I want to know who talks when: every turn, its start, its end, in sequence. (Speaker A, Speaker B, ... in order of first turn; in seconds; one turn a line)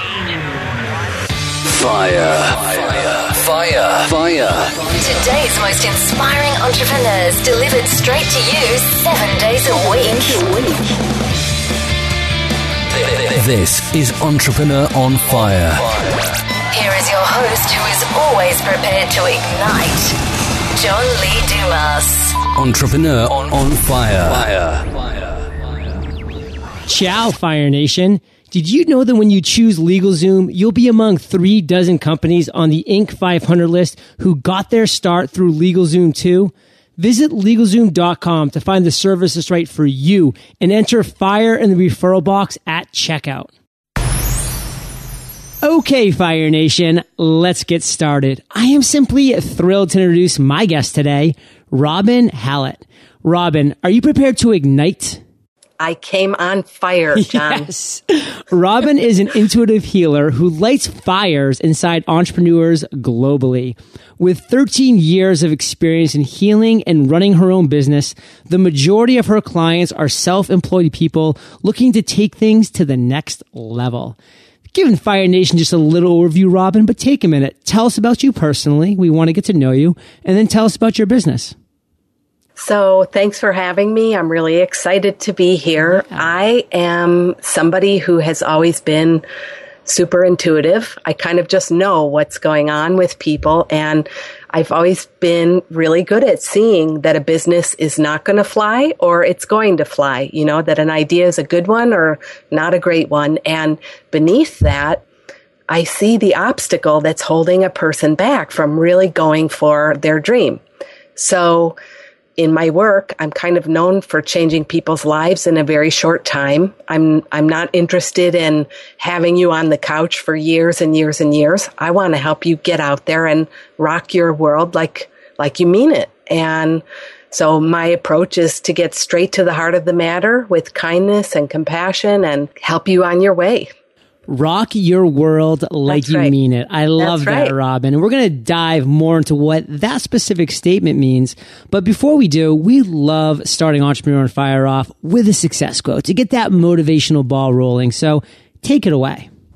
Speaker A: 1.7-4.8
Speaker B: 4.8-10.4
Speaker C: 9.7-11.0
Speaker A: 12.9-16.2
Speaker B: 16.7-20.1
Speaker B: 20.7-22.4
Speaker A: 22.5-25.1
Speaker D: 26.9-43.5
Speaker D: 45.6-55.2
Speaker C: 55.8-57.7
Speaker D: 57.1-74.2
Speaker D: 74.7-81.5
Speaker C: 82.6-89.2
Speaker D: 85.9-86.2
Speaker C: 89.8-105.0
Speaker C: 105.7-110.6
Speaker C: 111.2-111.8
Speaker C: 112.4-133.7
Speaker D: 134.3-149.3
Speaker C: 135.9-136.3
Speaker C: 137.0-137.5